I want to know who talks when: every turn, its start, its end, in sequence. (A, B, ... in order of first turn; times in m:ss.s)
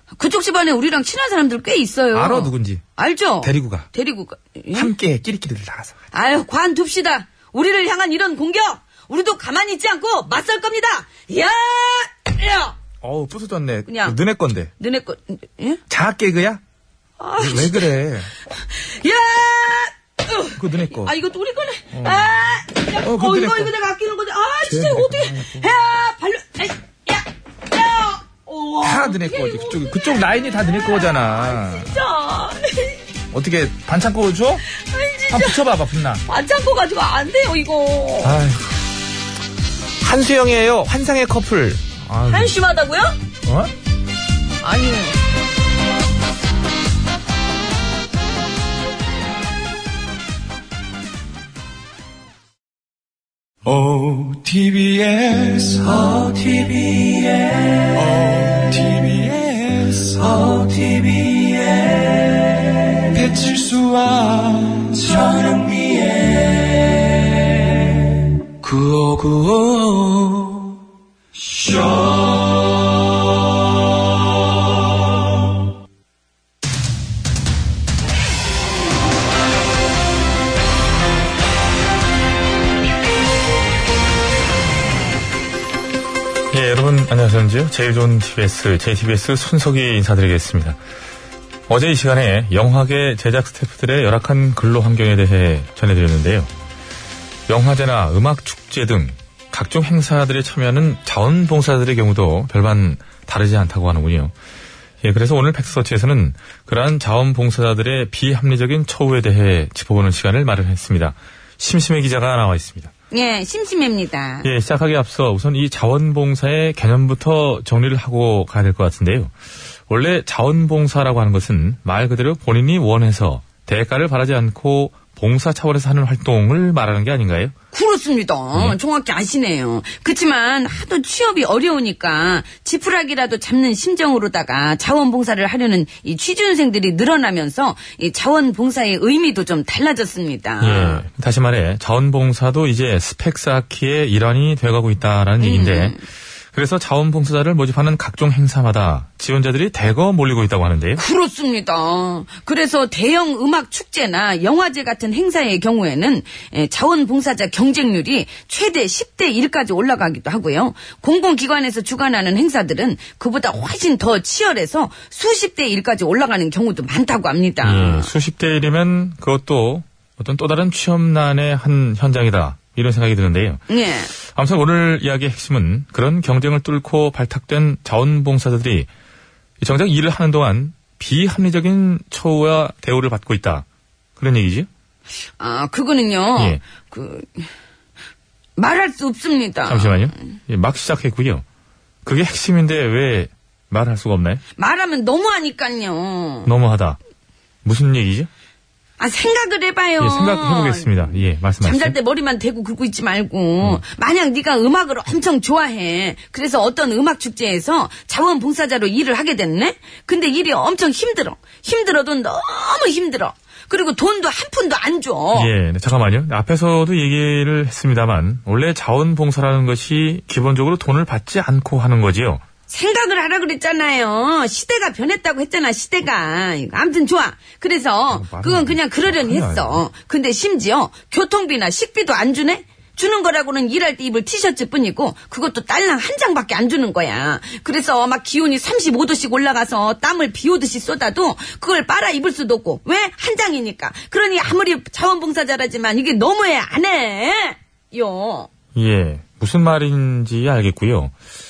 0:00.2-0:04.9 A
0:02.1-0:02.8 B
0:03.4-0:03.9 B
0:04.7-0:05.9 B
0:06.1-0:12.7 A
0:13.0-0:14.7 B
0:13.9-0:14.2 A
0:14.8-0:15.8 A
0:15.9-0:16.6 B
0:17.2-0:17.9 A
0:17.4-0:18.3 B
0:18.6-0:33.0 A
0:20.6-0:21.1 B
0:21.9-0:22.3 B
0:23.0-0:23.7 B
0:24.6-0:25.7 B
0:28.8-0:31.9 B
0:33.3-0:34.6 B
0:34.7-0:35.6 A
0:35.3-0:36.2 B
0:36.2-0:38.4 A
0:38.3-0:38.6 C
0:40.0-0:42.5 B
0:42.3-0:43.2 A
0:43.4-0:43.7 B
0:44.6-0:45.2 A
0:56.0-0:57.0 D
1:00.5-1:01.5 D
1:05.1-1:06.1 D
1:26.5-1:30.8 C
1:31.7-1:36.5 C
1:37.5-1:44.3 C
1:45.0-1:52.9 C
1:53.1-1:54.5 A
1:54.4-1:59.3 C
1:59.9-2:07.5 C
2:07.7-2:21.0 A
2:20.6-2:26.0 C
2:25.4-2:26.0 A
2:26.5-2:31.0 C
2:31.0-2:48.1 A
2:47.6-2:53.6 C
2:53.7-2:54.1 A
2:54.2-2:58.9 C
2:59.6-3:03.6 C
3:04.2-3:04.7 C
3:05.4-3:07.5 A
3:06.4-3:06.6 C
3:08.6-3:10.1 A
3:09.7-3:11.4 C
3:12.0-3:14.4 C
3:14.6-3:16.5 A
3:16.4-3:17.0 C
3:17.6-3:18.3 C
3:19.0-3:35.5 A
3:20.0-3:22.0 C
3:35.3-3:42.4 C
3:42.7-4:08.5 A
3:48.1-3:49.8 C
4:08.7-4:11.1 C